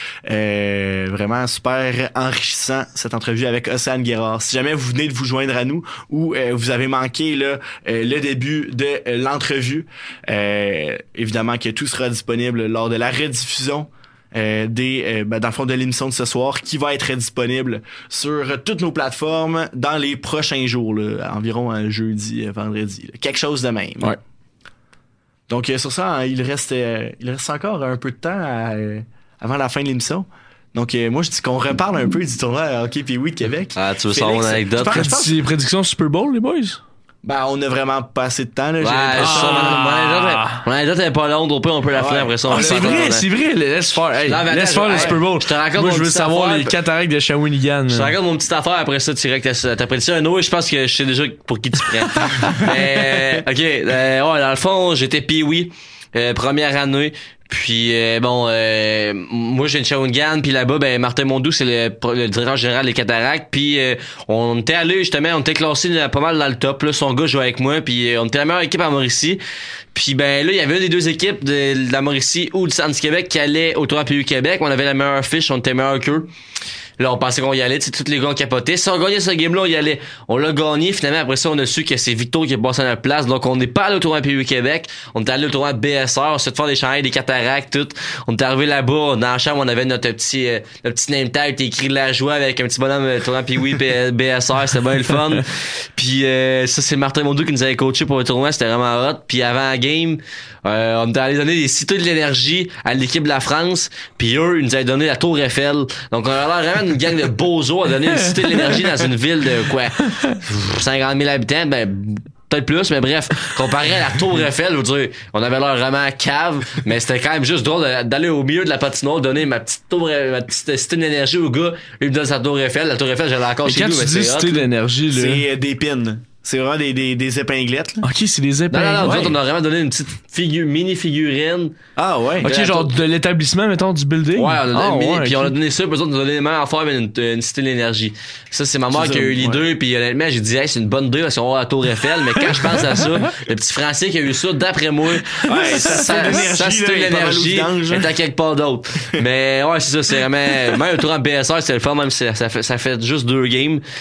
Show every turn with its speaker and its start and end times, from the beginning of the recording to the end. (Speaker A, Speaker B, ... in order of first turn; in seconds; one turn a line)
Speaker A: 0.3-24.2
Speaker A: 25.5-35.4
Speaker B: 33.8-35.0
Speaker C: 34.9-36.8
Speaker A: 37.2-39.8
Speaker B: 38.8-43.2
Speaker C: 39.2-40.6
Speaker A: 41.9-43.2
Speaker C: 42.5-48.1
Speaker B: 44.3-46.7
Speaker B: 47.9-69.4
Speaker C: 52.1-52.6
Speaker B: 69.9-76.3
Speaker B: 77.0-124.7
Speaker C: 123.7-125.4
Speaker A: 125.1-128.1
Speaker C: 128.0-129.4
Speaker B: 128.7-131.8
Speaker A: 132.0-132.5
Speaker B: 132.4-132.9
Speaker C: 132.4-135.5
Speaker B: 134.4-153.8
Speaker A: 138.9-139.6
Speaker A: 145.4-148.1